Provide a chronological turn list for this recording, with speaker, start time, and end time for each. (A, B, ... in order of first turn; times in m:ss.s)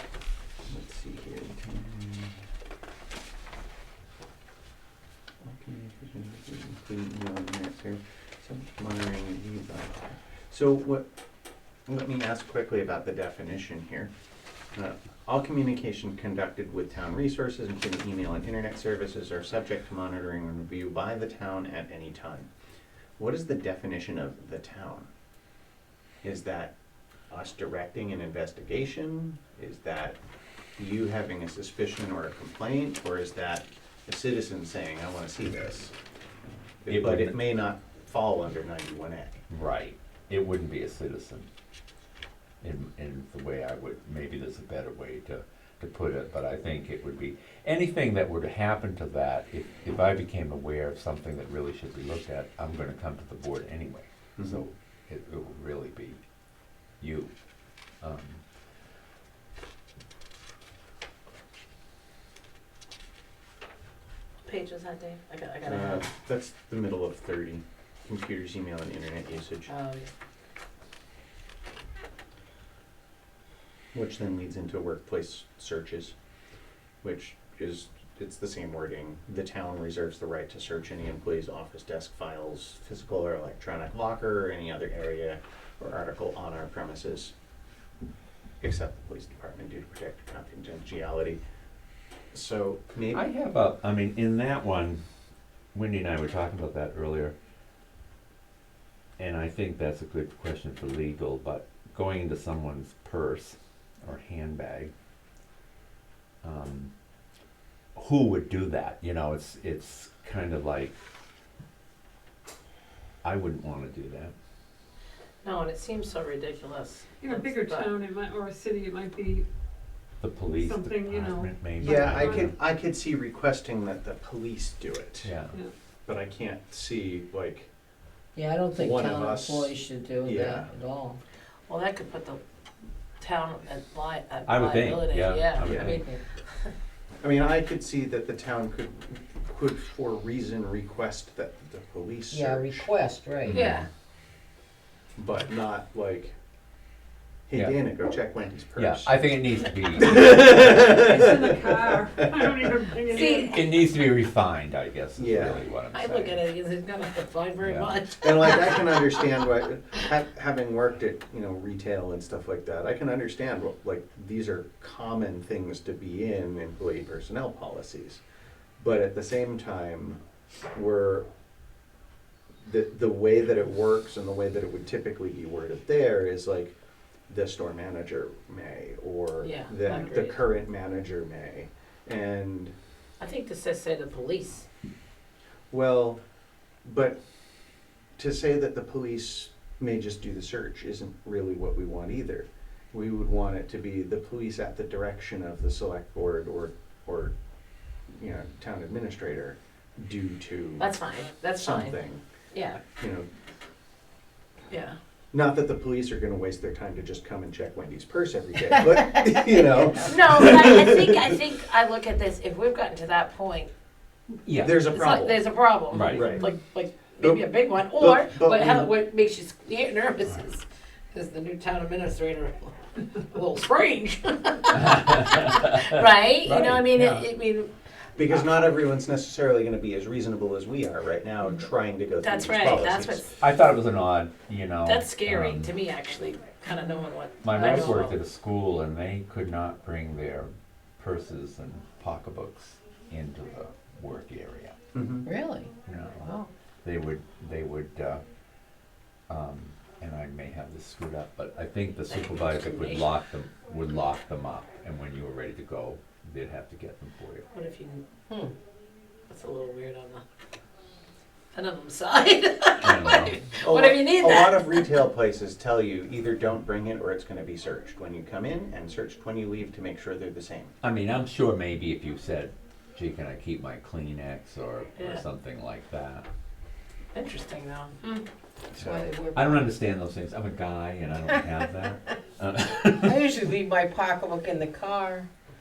0:00.7-0:02.4 A
0:05.4-0:11.1 A
0:11.9-0:14.1 A
0:14.7-0:22.5 A
0:23.2-0:25.1 A
0:26.2-0:26.7 A
0:27.3-0:30.2 A
0:30.8-0:35.9 A
0:36.8-0:39.4 A
0:36.9-0:37.4 B
0:39.5-0:41.5 B
0:42.6-0:56.2 B
0:57.0-0:57.3 B
0:58.0-0:58.4 B
1:04.4-1:06.1 C
1:05.6-1:09.7 A
1:09.7-1:10.1 C
1:13.9-1:16.1 A
1:17.0-1:27.3 A
1:28.6-1:31.4 A
1:32.3-1:33.2 A
1:33.1-1:35.0 B
1:35.7-1:37.3 B
1:39.2-1:44.9 B
1:46.4-1:46.9 B
1:48.0-1:51.0 B
1:53.2-1:54.3 B
1:55.4-1:58.0 C
1:57.2-1:59.5 D
2:00.2-2:02.5 B
2:00.5-2:02.4 D
2:01.8-2:05.3 A
2:05.2-2:05.6 B
2:06.1-2:07.7 A
2:08.4-2:11.2 E
2:08.7-2:10.7 A
2:11.7-2:12.4 C
2:13.2-2:16.1 C
2:14.5-2:16.0 B
2:15.6-2:16.0 A
2:15.9-2:16.2 E
2:17.2-2:22.9 A
2:22.3-2:23.6 E
2:23.5-2:23.8 B
2:23.5-2:23.9 C
2:25.2-2:26.4 A
2:27.5-2:29.1 A
2:28.8-2:30.6 B
2:30.0-2:32.5 A
2:30.7-2:33.6 D
2:33.1-2:33.6 C
2:33.2-2:36.4 B
2:35.2-2:35.6 A
2:35.9-2:38.9 C
2:37.6-2:38.0 B
2:38.2-2:48.2 A
2:48.8-2:50.2 A
2:50.7-2:51.3 A
2:52.6-2:56.8 A
2:57.3-3:02.7 A
2:59.4-3:00.4 C
3:03.2-3:04.7 C
3:05.7-3:06.2 A
3:06.8-3:07.2 A
3:08.2-3:17.3 A
3:18.1-3:20.9 A
3:20.8-3:22.0 C
3:21.6-3:22.2 A
3:22.5-3:22.8 C
3:23.0-3:23.3 A
3:24.7-3:25.0 C
3:25.3-3:31.4 A
3:30.0-3:33.7 C
3:34.5-3:34.8 B
3:34.6-3:35.4 A
3:34.9-3:47.7 C
3:35.9-3:36.3 B
3:36.1-3:36.5 A
3:37.2-3:38.9 A
3:45.1-3:45.9 B
3:46.4-3:47.2 B
3:48.2-3:53.3 A
3:52.2-3:53.3 C
3:53.4-3:55.7 B
3:54.8-3:58.2 C
3:57.4-4:04.8 B
4:04.9-4:05.3 A
4:05.2-4:06.5 E
4:05.9-4:06.3 B
4:06.8-4:08.2 B
4:09.3-4:17.5 B
4:12.1-4:13.1 C
4:17.5-4:18.0 C
4:19.3-4:20.2 C
4:21.5-4:24.9 C
4:22.8-4:23.4 B
4:23.6-4:30.8 A
4:30.8-4:36.3 B
4:35.0-4:35.2 C
4:37.1-4:38.2 C
4:38.7-4:39.1 A
4:38.8-4:39.8 E
4:39.3-4:43.2 B
4:43.0-4:45.3 E